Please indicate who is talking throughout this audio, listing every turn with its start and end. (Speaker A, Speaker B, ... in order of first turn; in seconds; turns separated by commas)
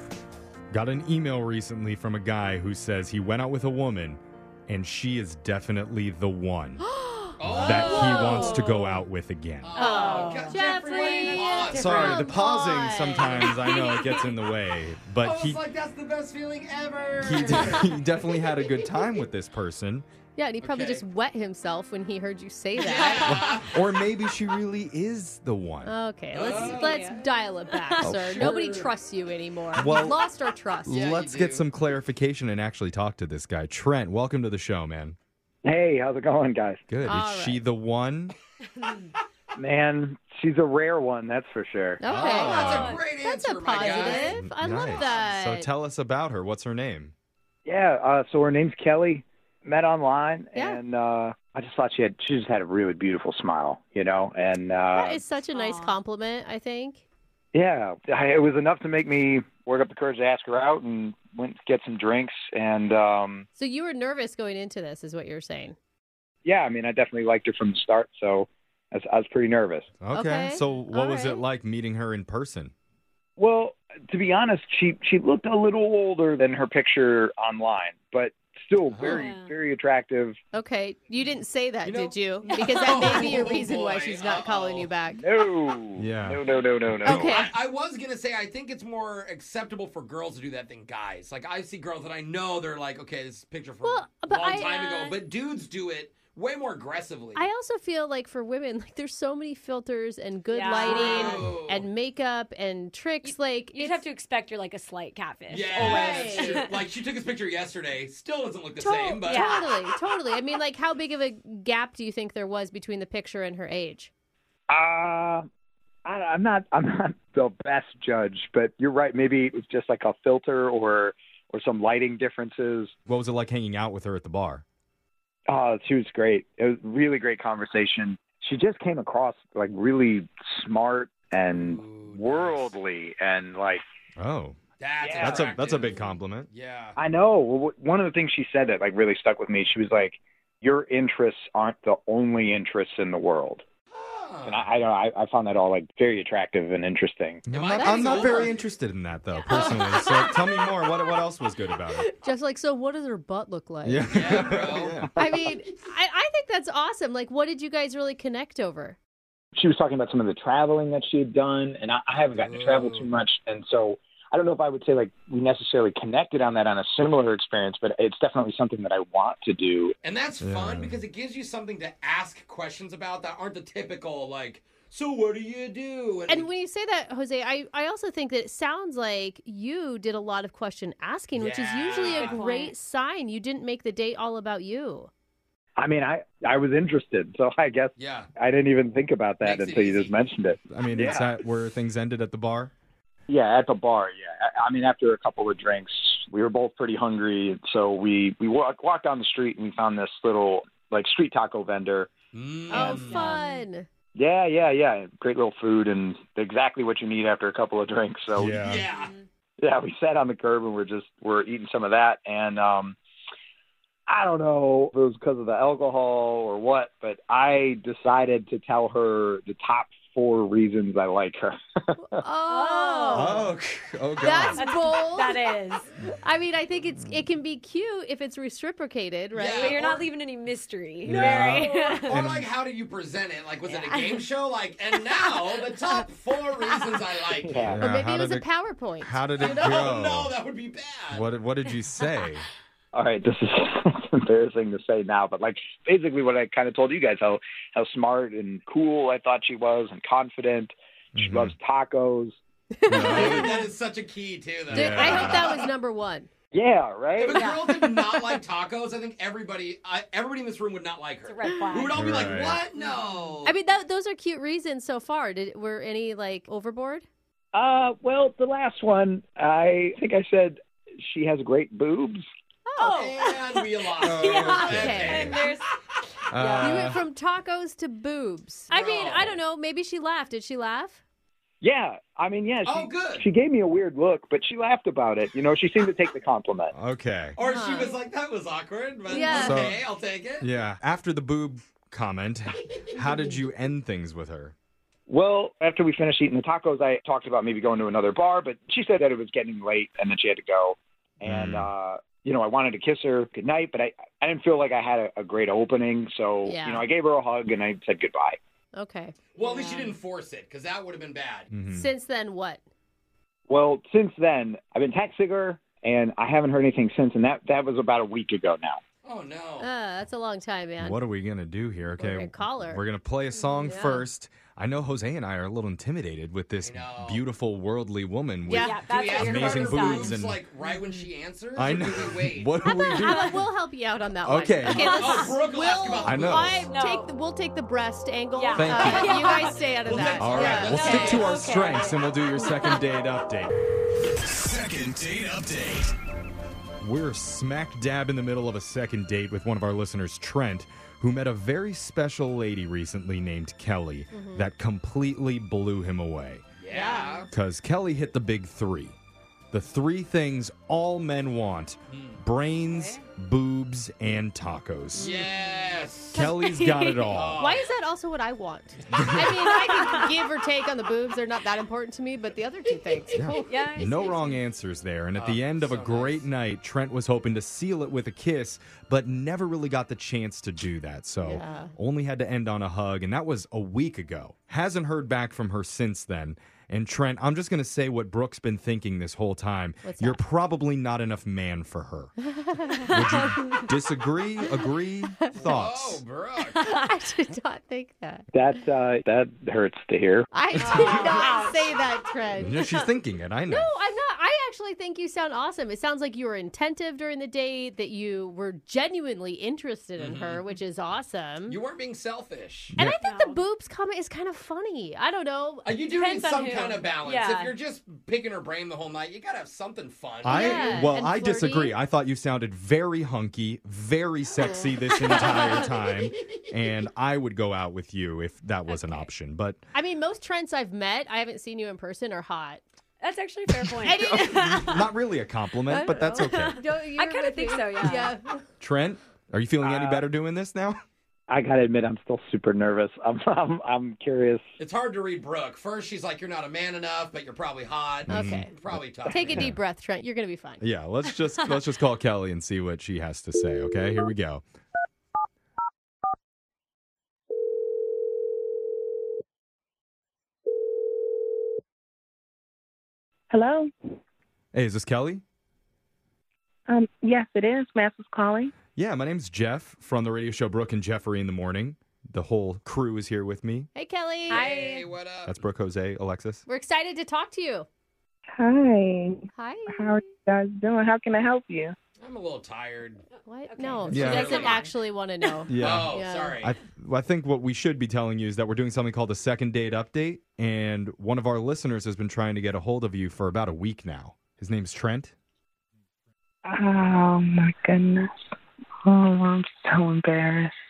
Speaker A: 0.7-6.8, Speaker B: 6.8-8.8, Speaker C: 7.4-8.5, Speaker A: 7.5-9.8, Speaker D: 7.8-9.0, Speaker C: 9.6-12.2, Speaker B: 9.8-13.5, Speaker D: 9.8-12.2, Speaker A: 11.7-15.6, Speaker D: 13.4-14.8, Speaker C: 15.2-19.0, Speaker A: 17.2-20.1, Speaker B: 20.4-23.5, Speaker C: 20.6-21.0, Speaker C: 22.8-23.7, Speaker D: 22.9-23.5, Speaker A: 23.2-25.9, Speaker B: 25.8-30.9, Speaker C: 26.3-27.1, Speaker D: 26.4-28.9, Speaker A: 28.0-28.5, Speaker A: 29.7-30.2, Speaker A: 30.9-35.1, Speaker C: 30.9-31.6, Speaker E: 35.6-36.8, Speaker A: 36.9-38.4, Speaker B: 37.0-37.6, Speaker E: 39.6-42.0, Speaker B: 42.0-45.7, Speaker A: 42.0-43.0, Speaker C: 42.2-44.4, Speaker D: 42.5-43.0, Speaker D: 43.8-44.1, Speaker A: 44.1-47.1, Speaker E: 47.6-55.2, Speaker B: 50.5-50.8, Speaker B: 54.9-57.0, Speaker D: 55.5-56.0, Speaker E: 57.5-63.5, Speaker B: 63.5-65.8, Speaker E: 66.4-69.9, Speaker A: 70.0-72.7, Speaker B: 70.1-70.6, Speaker D: 70.9-71.4, Speaker E: 73.4-80.4, Speaker D: 79.0-79.5, Speaker B: 80.5-85.2, Speaker C: 81.8-84.9, Speaker D: 82.5-83.3, Speaker E: 83.2-83.5, Speaker E: 85.1-87.5, Speaker A: 86.0-86.4, Speaker B: 87.0-87.6, Speaker C: 87.1-97.5, Speaker B: 93.8-95.2, Speaker B: 97.3-104.0, Speaker D: 100.5-101.5, Speaker C: 100.8-101.9, Speaker D: 103.2-106.8, Speaker C: 105.5-109.7, Speaker B: 105.8-106.5, Speaker B: 108.8-114.1, Speaker D: 109.2-109.9, Speaker E: 114.7-115.5, Speaker E: 116.0-122.9, Speaker A: 123.1-124.6, Speaker E: 125.5-133.8, Speaker C: 131.5-132.8, Speaker A: 134.2-134.6, Speaker C: 134.8-136.9, Speaker E: 135.0-135.5, Speaker A: 135.2-136.5, Speaker E: 137.0-143.6, Speaker C: 143.9-144.7, Speaker E: 144.4-147.4, Speaker A: 147.4-152.1, Speaker C: 147.5-148.6, Speaker B: 147.8-148.5, Speaker D: 149.3-151.2, Speaker B: 149.5-150.0, Speaker B: 152.2-159.0, Speaker A: 153.8-155.1, Speaker C: 154.1-155.0, Speaker E: 159.5-169.9, Speaker C: 162.3-163.1, Speaker C: 170.0-176.5, Speaker A: 170.4-171.0, Speaker B: 176.3-185.1, Speaker C: 181.3-182.4, Speaker D: 182.2-182.7, Speaker E: 185.8-191.3, Speaker C: 188.0-188.3, Speaker C: 189.4-190.2, Speaker A: 190.7-192.7, Speaker E: 193.3-202.1, Speaker C: 202.3-203.4, Speaker D: 202.7-203.7, Speaker B: 202.7-203.9, Speaker E: 204.1-208.5, Speaker A: 208.3-208.9, Speaker C: 208.4-209.1, Speaker D: 208.8-209.2, Speaker E: 209.6-213.0, Speaker E: 214.1-221.9, Speaker B: 222.0-223.5, Speaker D: 222.4-223.4, Speaker A: 223.1-224.6, Speaker B: 224.2-225.4, Speaker D: 224.5-225.9, Speaker B: 226.0-229.9, Speaker C: 229.3-230.0, Speaker D: 229.5-232.2, Speaker A: 231.0-232.5, Speaker C: 231.1-237.8, Speaker D: 233.7-234.3, Speaker D: 234.9-236.1, Speaker D: 236.6-237.0, Speaker E: 237.4-237.8, Speaker A: 237.6-238.5, Speaker B: 237.8-239.9, Speaker A: 239.0-240.3, Speaker C: 239.4-241.3, Speaker A: 241.1-242.4, Speaker E: 242.9-252.4, Speaker A: 251.1-251.5, Speaker B: 252.8-253.7, Speaker A: 252.9-253.6, Speaker C: 253.1-255.7, Speaker A: 254.7-255.5, Speaker B: 254.7-256.3, Speaker E: 256.5-257.6, Speaker C: 257.2-263.5, Speaker D: 261.2-263.4, Speaker A: 261.9-262.6, Speaker B: 263.4-267.0, Speaker E: 267.5-272.3, Speaker B: 272.7-272.9, Speaker D: 272.8-275.7, Speaker C: 272.9-275.5, Speaker A: 274.0-275.4, Speaker B: 274.4-275.3, Speaker D: 276.3-276.8, Speaker A: 276.3-277.0, Speaker B: 276.6-281.0, Speaker C: 278.7-279.4, Speaker E: 281.6-286.7, Speaker C: 282.6-283.3, Speaker A: 286.7-287.4, Speaker C: 287.4-290.4, Speaker B: 287.4-288.0, Speaker B: 289.1-289.6, Speaker A: 289.3-289.8, Speaker A: 290.4-294.5, Speaker E: 295.1-308.4, Speaker A: 301.2-301.7, Speaker B: 306.4-306.9, Speaker B: 308.7-309.9, Speaker C: 309.3-311.5, Speaker D: 309.6-309.9, Speaker A: 311.5-311.9, Speaker B: 311.7-312.6, Speaker E: 313.5-318.8, Speaker C: 319.0-319.7, Speaker B: 319.6-321.0, Speaker A: 320.8-330.4, Speaker B: 322.0-322.8, Speaker D: 323.6-323.9, Speaker B: 323.6-324.0, Speaker C: 326.6-327.2, Speaker B: 328.4-328.8, Speaker D: 328.6-330.1, Speaker C: 328.9-332.6, Speaker A: 331.6-333.4, Speaker B: 332.6-341.3, Speaker A: 334.2-335.3, Speaker C: 334.7-336.6, Speaker A: 336.0-336.7, Speaker D: 336.7-337.1, Speaker D: 338.3-339.7, Speaker A: 338.6-339.1, Speaker C: 339.8-341.3, Speaker A: 340.1-343.5, Speaker D: 340.4-342.8, Speaker A: 344.2-345.9, Speaker A: 346.8-356.4, Speaker B: 354.1-354.5, Speaker C: 356.6-357.3, Speaker B: 356.7-357.3, Speaker A: 357.3-358.9, Speaker A: 359.5-365.1, Speaker C: 361.9-362.2, Speaker D: 362.7-363.0, Speaker C: 365.0-366.3, Speaker D: 365.1-365.3, Speaker D: 366.1-367.2, Speaker A: 366.1-367.5, Speaker C: 367.1-367.7, Speaker B: 367.4-373.6, Speaker A: 368.9-369.4, Speaker D: 369.6-370.1, Speaker A: 373.1-392.1, Speaker D: 373.4-374.4, Speaker C: 375.1-376.3, Speaker B: 381.2-381.7, Speaker B: 389.8-390.2, Speaker B: 392.2-393.6, Speaker A: 392.8-396.0, Speaker B: 395.2-395.5, Speaker C: 395.3-396.6, Speaker D: 396.5-396.9, Speaker B: 396.6-398.2, Speaker E: 398.3-400.3, Speaker B: 400.3-402.5, Speaker D: 400.6-401.8, Speaker C: 400.6-401.3, Speaker A: 402.4-403.7, Speaker D: 402.5-402.8, Speaker B: 403.5-411.6, Speaker C: 410.0-410.6, Speaker C: 411.5-412.7, Speaker A: 412.7-413.0, Speaker B: 412.8-415.7, Speaker D: 413.0-413.4, Speaker C: 415.6-420.8, Speaker D: 415.9-417.5, Speaker A: 420.2-429.6, Speaker B: 420.2-421.8, Speaker B: 424.4-424.7, Speaker D: 424.9-425.7, Speaker C: 425.1-425.9, Speaker D: 428.7-429.1, Speaker B: 429.7-432.6, Speaker D: 433.0-434.9, Speaker B: 433.8-434.2, Speaker A: 433.9-436.6, Speaker B: 435.7-438.4, Speaker D: 436.2-438.1, Speaker A: 438.6-440.8, Speaker E: 439.6-440.0, Speaker E: 441.3-444.4, Speaker C: 444.6-449.5, Speaker A: 448.1-449.6, Speaker B: 448.1-448.5, Speaker B: 449.0-450.6, Speaker A: 450.6-454.4, Speaker F: 463.3-463.7, Speaker A: 464.5-465.2, Speaker F: 466.7-468.5, Speaker A: 468.8-473.7, Speaker B: 473.7-474.5, Speaker D: 474.3-474.9, Speaker C: 474.3-475.3, Speaker A: 475.2-476.4, Speaker B: 476.5-477.7, Speaker F: 478.4-481.8, Speaker B: 479.4-480.0, Speaker C: 482.0-483.0, Speaker D: 483.1-485.5, Speaker B: 483.2-486.4, Speaker C: 483.9-484.6, Speaker A: 483.9-484.4, Speaker A: 485.5-495.1, Speaker C: 485.6-486.5, Speaker F: 496.4-498.1, Speaker F: 498.9-500.5